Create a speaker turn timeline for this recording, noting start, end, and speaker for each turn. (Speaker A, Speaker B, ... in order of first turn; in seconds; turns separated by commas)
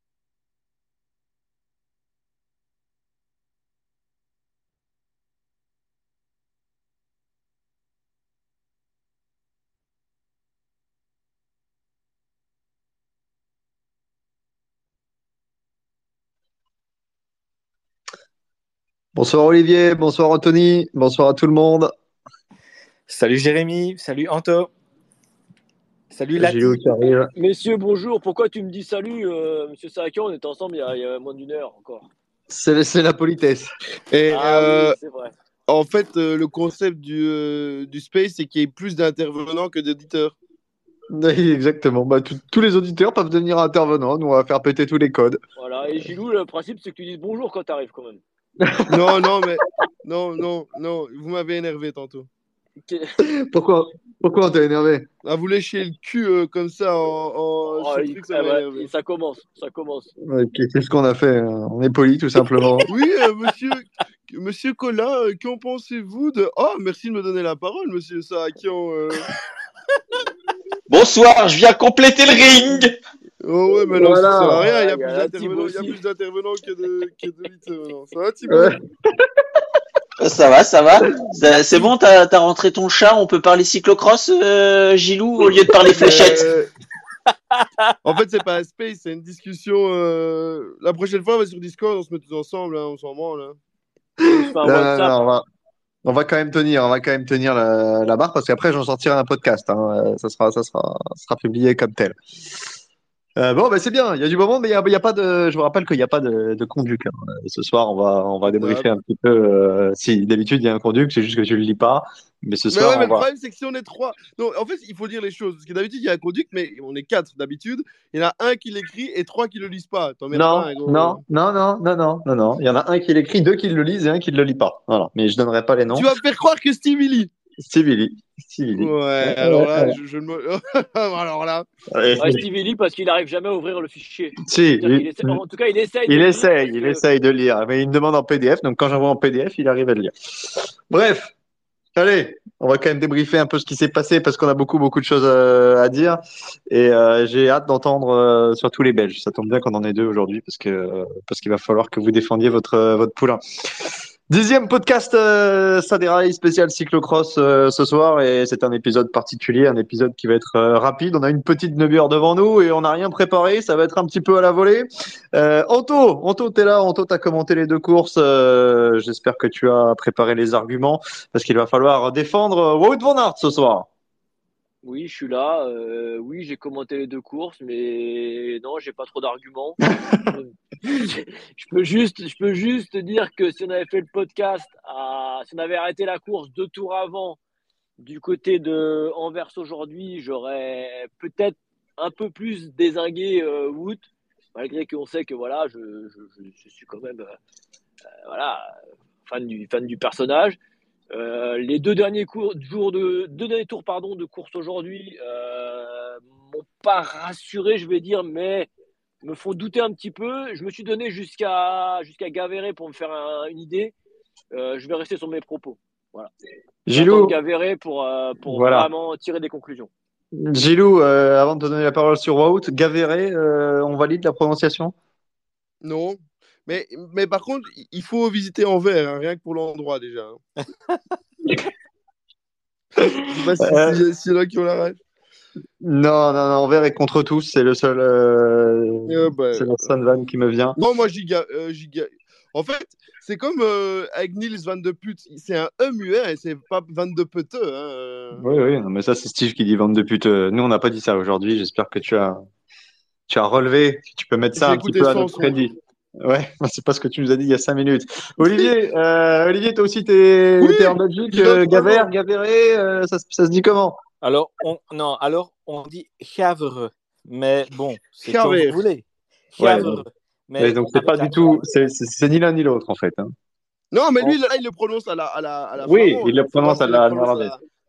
Speaker A: 19.1-21.9, Speaker B: 23.1-24.7, Speaker B: 26.1-26.8, Speaker A: 26.4-27.3, Speaker C: 27.4-32.1, Speaker A: 32.5-33.7, Speaker D: 34.1-35.0, Speaker C: 34.3-35.3, Speaker D: 35.7-40.4, Speaker A: 41.1-45.4, Speaker C: 45.6-48.2, Speaker A: 48.6-49.1, Speaker D: 48.9-52.3, Speaker C: 52.8-53.2, Speaker A: 53.2-55.1, Speaker D: 55.2-58.9, Speaker C: 57.7-60.1, Speaker A: 60.2-62.9, Speaker D: 62.9-69.3, Speaker E: 70.9-73.0, Speaker D: 73.4-78.8, Speaker A: 74.0-74.6, Speaker C: 74.6-76.0, Speaker A: 78.5-78.8, Speaker E: 80.2-86.5, Speaker D: 85.8-86.7, Speaker A: 86.1-86.4, Speaker D: 88.0-93.6, Speaker C: 94.4-95.2, Speaker A: 94.6-95.4, Speaker A: 96.0-102.2, Speaker A: 103.4-113.3, Speaker D: 108.5-108.9, Speaker D: 112.7-121.2, Speaker A: 120.3-126.1, Speaker D: 125.9-127.3, Speaker A: 127.6-129.9, Speaker D: 128.8-131.7, Speaker A: 131.9-132.4, Speaker C: 132.2-137.0, Speaker A: 134.4-135.4, Speaker A: 136.1-141.3, Speaker A: 141.9-173.9, Speaker C: 174.8-187.4, Speaker C: 188.0-197.3, Speaker C: 198.3-200.6, Speaker C: 201.1-208.7, Speaker C: 209.2-213.9, Speaker C: 214.5-216.3, Speaker A: 216.9-217.4, Speaker C: 216.9-219.9, Speaker A: 218.5-218.9, Speaker A: 220.3-224.9, Speaker D: 225.8-230.4, Speaker D: 233.0-235.0, Speaker A: 233.6-234.0, Speaker A: 235.8-240.8, Speaker D: 239.1-239.9, Speaker D: 240.8-248.4, Speaker A: 248.4-252.4, Speaker A: 253.3-264.0, Speaker D: 254.6-255.6, Speaker D: 258.4-258.7, Speaker D: 260.6-262.1, Speaker B: 264.2-271.6, Speaker D: 268.2-268.8, Speaker A: 269.6-270.0, Speaker A: 270.6-273.3, Speaker D: 273.9-277.6, Speaker A: 275.8-277.5